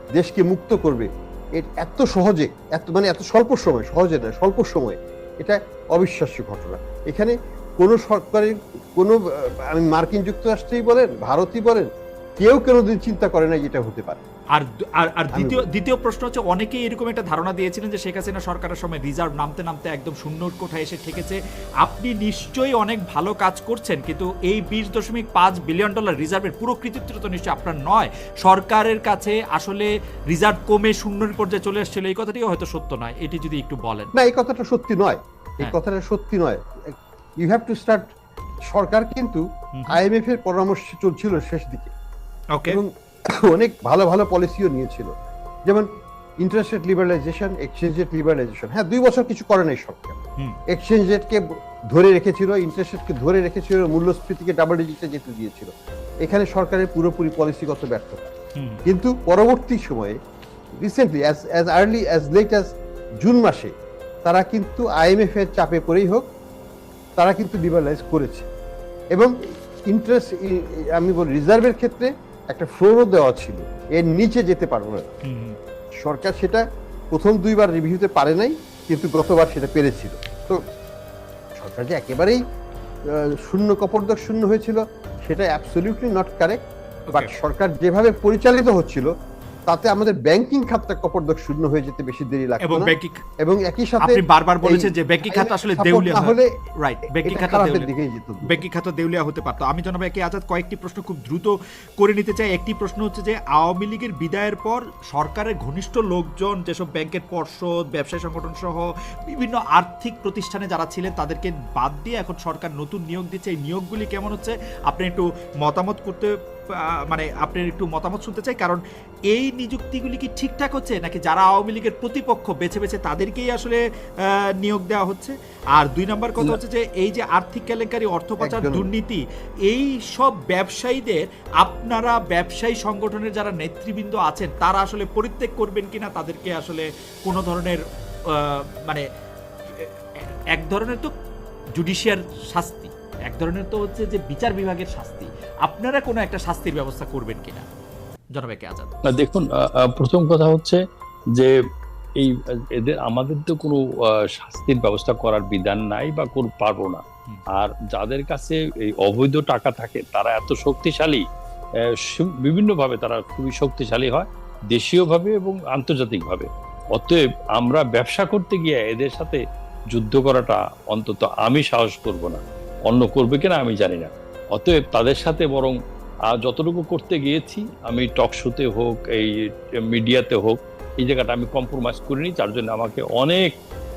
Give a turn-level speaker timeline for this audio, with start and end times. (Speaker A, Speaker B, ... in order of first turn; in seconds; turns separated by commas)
Speaker A: 0.1-14.2, Speaker B: 14.5-34.1, Speaker A: 15.3-15.6, Speaker A: 34.1-36.6, Speaker A: 37.4-38.1, Speaker A: 38.7-41.9, Speaker B: 39.7-40.0, Speaker B: 42.5-42.8, Speaker A: 42.7-45.1, Speaker A: 46.4-50.2, Speaker A: 50.7-55.7, Speaker A: 56.2-58.3, Speaker B: 58.5-58.8, Speaker A: 58.8-60.1, Speaker A: 60.8-62.7, Speaker A: 63.2-63.7, Speaker A: 64.2-66.2, Speaker A: 67.2-68.5, Speaker A: 69.9-75.1, Speaker B: 75.2-75.6, Speaker A: 76.0-80.6, Speaker A: 81.5-82.4, Speaker A: 83.1-86.6, Speaker A: 87.1-89.1, Speaker A: 89.7-96.5, Speaker B: 92.6-93.2, Speaker B: 94.0-97.9, Speaker A: 97.2-98.6, Speaker B: 98.4-118.8, Speaker B: 119.3-139.0, Speaker A: 128.4-128.9, Speaker B: 140.5-141.1, Speaker B: 141.8-147.7, Speaker B: 148.3-148.9, Speaker C: 149.1-150.8, Speaker C: 152.2-153.8, Speaker C: 154.3-157.0, Speaker C: 157.5-161.2, Speaker C: 162.1-169.4, Speaker C: 169.9-175.7, Speaker C: 176.3-179.3, Speaker C: 179.8-183.5